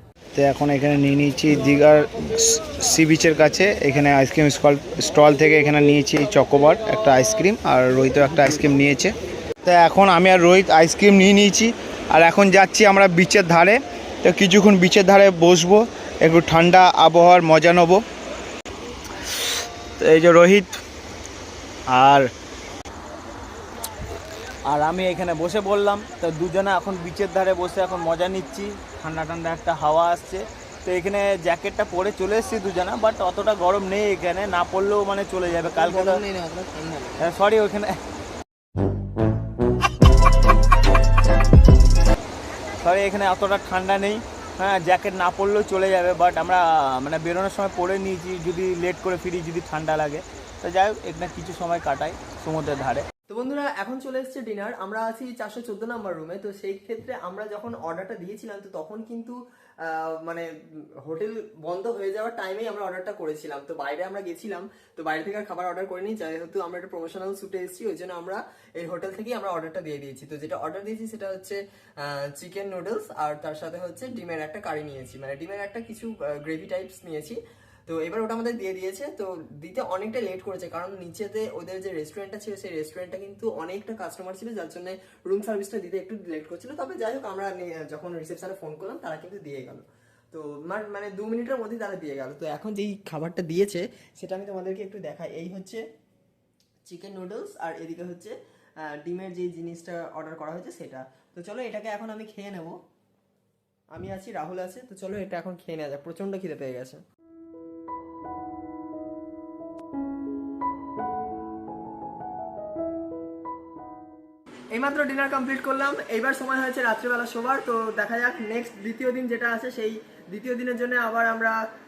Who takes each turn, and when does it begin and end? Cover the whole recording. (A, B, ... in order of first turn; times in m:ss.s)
0:00.3-0:18.0 A
0:20.0-0:20.8 A
0:21.9-0:22.3 A
0:24.7-0:30.4 B
0:30.9-0:35.0 B
0:34.6-0:36.2 A
0:35.6-0:37.2 C
0:42.8-0:44.2 A
0:44.8-0:45.8 A
0:48.0-0:53.0 B
0:53.3-1:00.5 C
1:01.0-1:35.8 C
1:36.9-1:38.3 C
1:38.9-1:42.7 C
1:43.9-1:47.0 C
1:54.7-2:01.6 C